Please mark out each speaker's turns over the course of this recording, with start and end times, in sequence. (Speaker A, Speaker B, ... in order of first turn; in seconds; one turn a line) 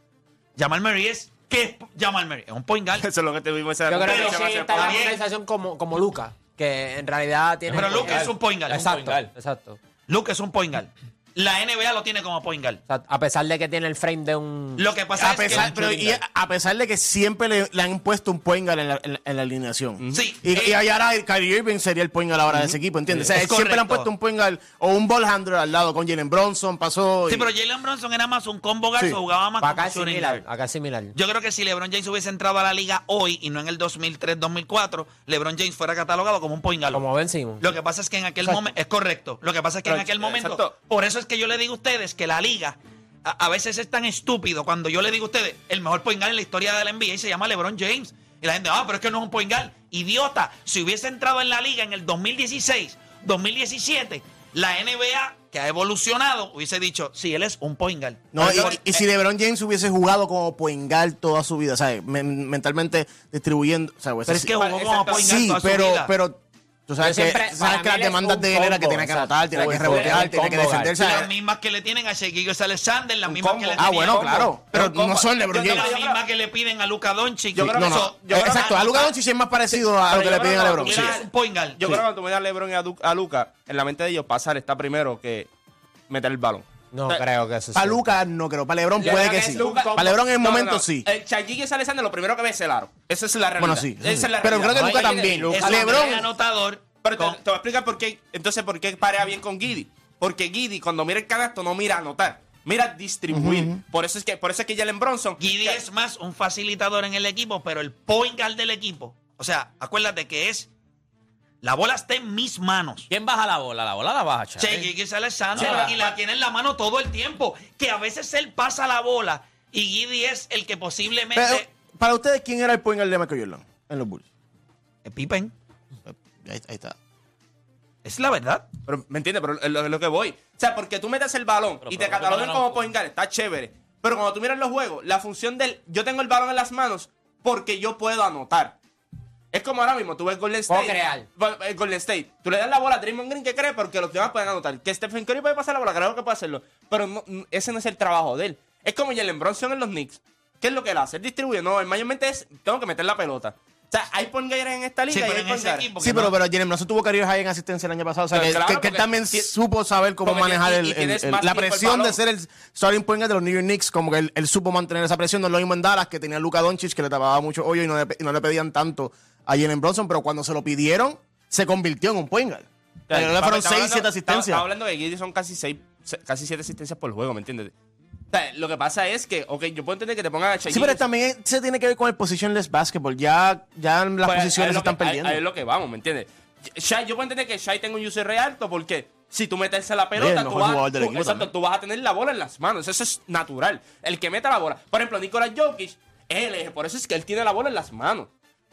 Speaker A: 0.6-3.1
Speaker B: 3.0-5.1
Speaker C: 3.9-9.8
Speaker A: 4.0-5.2
Speaker A: 7.7-8.9
Speaker D: 7.7-9.3
Speaker A: 10.1-12.8
Speaker C: 12.9-16.2
Speaker A: 14.8-15.7
Speaker E: 15.2-27.5
Speaker B: 20.0-20.2
Speaker A: 20.1-20.8
Speaker A: 23.3-24.1
Speaker A: 27.3-30.4
Speaker C: 29.6-31.1
Speaker A: 31.1-37.0
Speaker C: 36.9-37.7
Speaker A: 37.6-58.8
Speaker B: 39.9-40.7
Speaker E: 58.3-64.5
Speaker B: 58.4-58.8
Speaker A: 64.3-66.1
Speaker B: 64.5-65.5
Speaker E: 65.1-71.3
Speaker C: 67.0-71.0
Speaker B: 69.6-70.2
Speaker A: 71.0-74.5
Speaker B: 73.3-76.2
Speaker E: 73.8-75.9
Speaker A: 75.6-79.1
Speaker B: 77.5-79.1
Speaker E: 77.6-81.2
Speaker B: 80.0-81.3
Speaker A: 80.8-82.0
Speaker B: 81.8-85.5
Speaker B: 86.1-87.2
Speaker C: 86.9-88.0
Speaker E: 87.7-91.1
Speaker B: 89.0-95.5
Speaker C: 89.0-90.2
Speaker E: 93.6-96.3
Speaker C: 94.7-96.3
Speaker A: 95.5-97.4
Speaker B: 97.0-105.8
Speaker E: 103.3-103.8
Speaker A: 105.4-110.7
Speaker A: 111.6-113.1
Speaker D: 113.1-114.9
Speaker A: 114.6-121.7
Speaker D: 115.5-116.0
Speaker B: 115.6-116.0
Speaker E: 121.3-124.2
Speaker A: 125.0-125.5
Speaker E: 126.0-127.0
Speaker A: 128.0-128.7
Speaker B: 128.9-138.8
Speaker D: 131.8-132.9
Speaker B: 139.5-155.9
Speaker C: 140.7-141.3
Speaker A: 155.1-156.4
Speaker E: 156.0-174.7
Speaker B: 158.3-159.5
Speaker B: 160.2-162.2
Speaker B: 173.1-177.7
Speaker B: 178.3-181.0
Speaker E: 180.7-185.4
Speaker B: 184.2-198.3
Speaker E: 190.2-191.5